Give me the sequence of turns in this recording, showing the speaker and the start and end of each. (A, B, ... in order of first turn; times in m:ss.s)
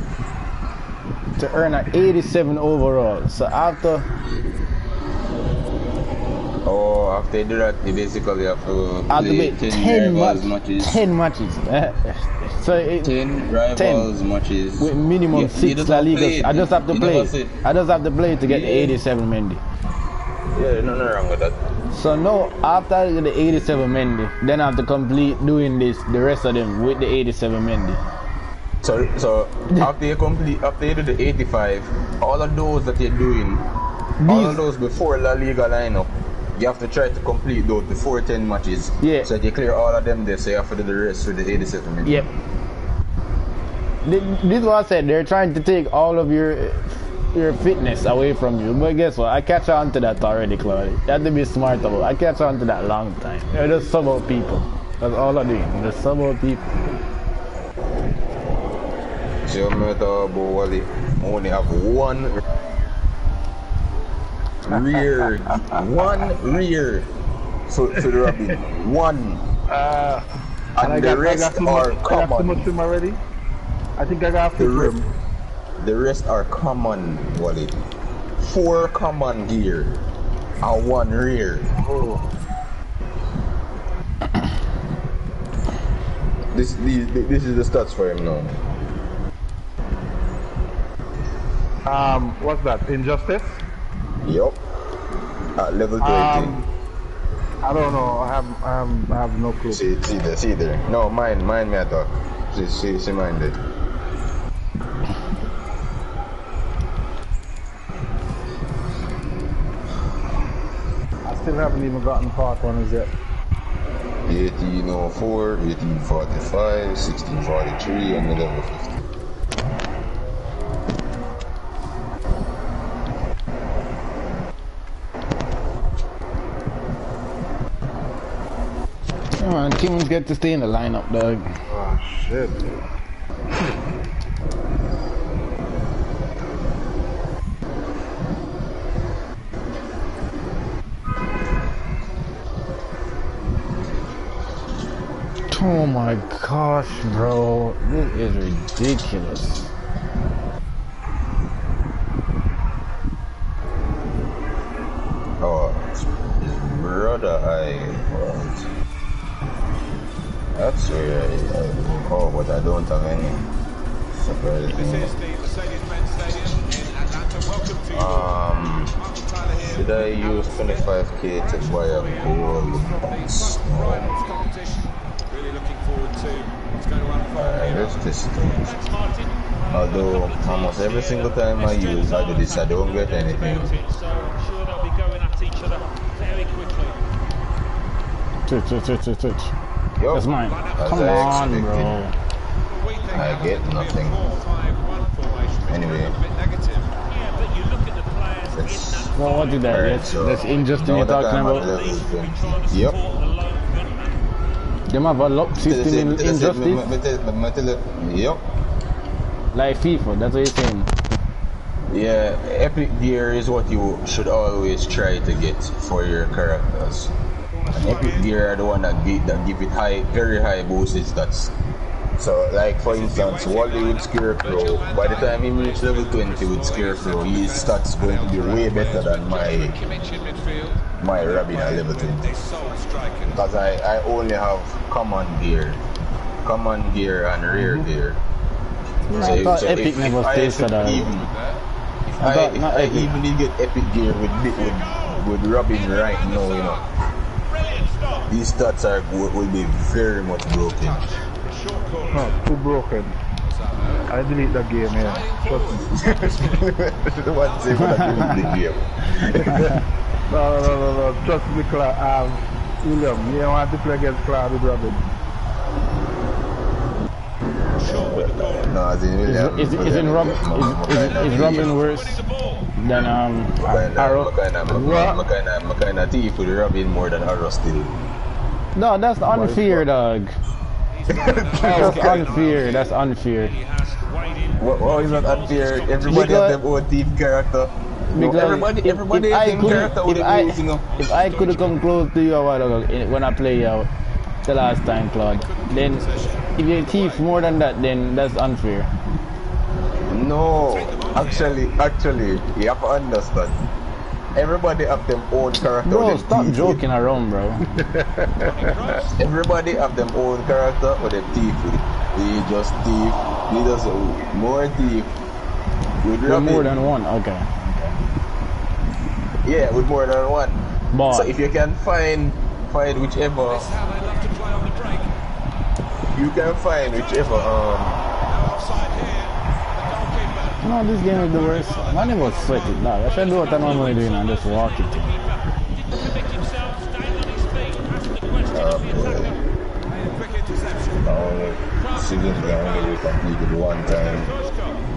0:01.4-0:04.1 A
0:06.6-0:11.0 B
0:09.1-0:13.2 A
0:13.0-0:17.6 B
0:13.7-0:14.1 A
0:14.8-0:19.6 A
0:18.4-0:19.0 B
0:20.5-0:21.7 B
0:21.9-0:28.0 A
0:28.8-0:33.7 B
0:34.2-0:34.6 A
0:34.2-0:42.3 B
0:39.0-0:39.3 A
0:42.0-0:42.3 A
0:44.0-0:56.7 A
0:59.4-1:02.4 B
1:04.7-1:07.1 B
1:05.6-1:06.2 C
1:07.7-1:09.5 B
1:09.7-1:13.2 C
1:10.8-1:12.6 B
1:14.0-1:15.1 C
1:14.6-1:14.9 B
1:15.8-1:17.8 B
1:18.4-1:20.0 B
1:20.6-1:21.7 B
1:21.8-1:22.2 C
1:26.5-1:28.6 B
1:31.9-1:33.6 C
1:34.2-1:34.6 B
1:35.6-1:36.5 B
1:36.0-1:36.7 C
1:37.6-1:39.8 C
1:39.7-1:43.6 B
1:51.3-1:53.1 C
1:54.3-1:59.0 B
2:09.4-2:11.5 A
2:11.7-2:12.7 C
2:25.5-2:29.7 A
2:35.4-2:38.7 B
2:40.6-2:43.4 B
2:44.1-2:45.1 B
2:44.7-2:58.0 D
2:47.9-2:49.0 B
2:49.6-2:54.1 B
2:57.4-2:58.7 B
2:58.4-3:07.0 E
2:59.7-3:03.7 B
3:08.5-3:09.5 A
3:10.0-3:12.0 B
3:10.1-3:12.1 A
3:10.4-3:11.5 D
3:12.7-3:16.9 D
3:13.1-3:14.2 B
3:15.7-3:16.2 B
3:17.1-3:24.2 E
3:18.6-3:19.1 B
3:19.2-3:21.7 A
3:19.6-3:23.0 B
3:24.9-3:26.9 A
3:25.6-3:28.4 B
3:29.5-3:30.9 A
3:31.9-3:37.1 B
3:37.7-3:41.5 B
3:37.8-3:38.3 D
3:42.2-3:49.8 B
3:42.8-3:53.5 D
3:51.0-3:52.3 B
3:53.3-3:55.8 B
3:56.4-3:58.2 B
3:59.1-3:59.8 D
3:59.1-4:01.3 B
3:59.1-4:01.1 A
4:00.8-4:01.6 D
4:02.1-4:06.8 B
4:02.2-4:03.2 A
4:04.3-4:07.0 D
4:07.5-4:08.3 D
4:08.3-4:11.0 B
4:10.5-4:12.4 D
4:12.1-4:13.2 C
4:13.4-4:14.1 D
4:14.1-4:15.8 C
4:14.9-4:16.8 D
4:15.9-4:19.7 B
4:17.4-4:18.6 D
4:17.8-4:18.6 A
4:20.3-4:25.0 C
4:27.7-4:28.8 D
4:27.8-4:31.7 B
4:29.2-4:32.2 A
4:30.8-4:32.8 D
4:32.8-4:34.3 A
4:33.6-4:38.0 B
4:34.7-4:35.2 C
4:38.8-4:40.4 A
4:39.4-4:39.8 B
4:41.0-4:42.8 D
4:41.1-4:42.2 B
4:41.6-4:43.5 A
4:41.7-4:46.4 E
4:44.6-4:50.9 B
4:46.1-4:46.6 A
4:48.1-4:53.9 A
4:50.9-4:51.8 D
4:54.5-4:56.0 A
4:55.3-4:57.3 D
4:56.6-4:58.9 A
5:00.1-5:03.7 B
5:00.6-5:01.6 D
5:04.4-5:06.8 B
5:05.8-5:07.6 A
5:08.0-5:08.5 C
5:08.4-5:09.2 D
5:09.2-5:15.2 B
5:16.0-5:16.9 B
5:16.2-5:18.0 A
5:19.4-5:23.7 B
5:20.9-5:21.3 A
5:23.5-5:25.2 D
5:26.1-5:28.0 B
5:26.9-5:34.2 D
5:30.6-5:35.0 A
5:33.0-5:39.4 E
5:38.5-5:39.4 B
5:39.8-5:43.1 D
5:41.0-5:44.3 B
5:43.8-5:44.8 D